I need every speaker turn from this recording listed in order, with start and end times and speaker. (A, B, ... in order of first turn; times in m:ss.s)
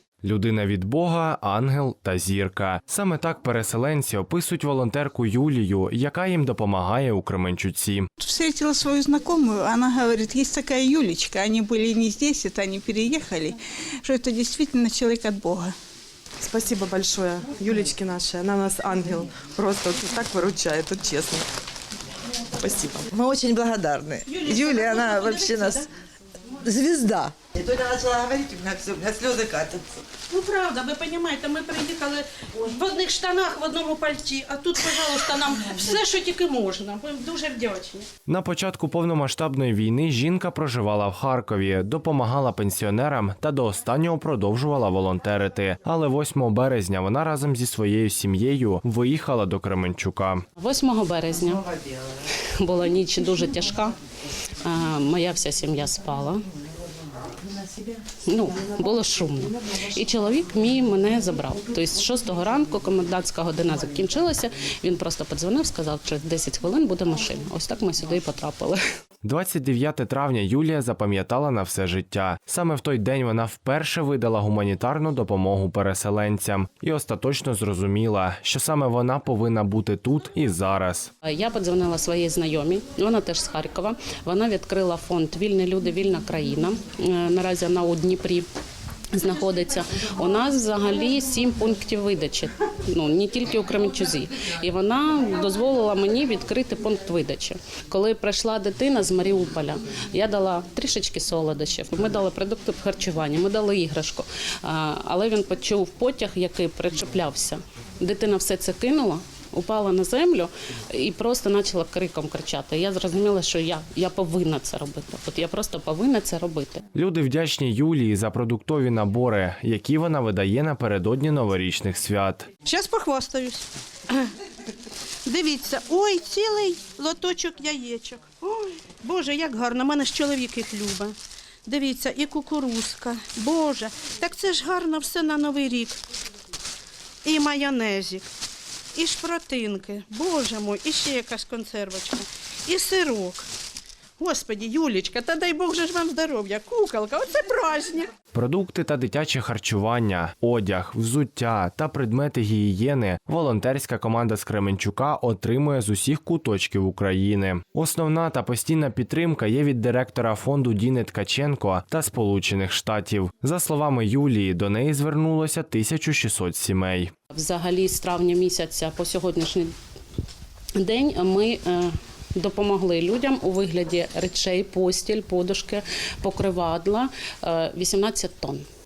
0:00.2-0:08.1 A
0:08.3-0:13.5 B
0:14.0-0:15.8 B
0:16.4-0:21.5 C
0:22.6-0:23.1 C
0:23.0-0:25.9 D
0:24.3-0:25.9 E
0:26.6-0:29.8 D
0:30.3-0:38.1 E
0:38.3-0:50.4 A
0:50.6-0:54.0 F
0:54.6-0:56.5 F
0:58.2-1:08.8 F
1:09.2-1:21.1 A
1:21.3-1:28.4 F
1:29.2-1:56.8 F
1:57.0-2:02.5 A
2:02.6-2:04.3 E
2:05.2-2:11.2 E
2:11.7-2:16.0 E
2:17.2-2:18.3 E
2:19.0-2:23.4 E
2:24.2-2:28.1 E
2:28.3-2:47.1 A
2:47.3-2:49.7 F
2:50.8-2:58.6 F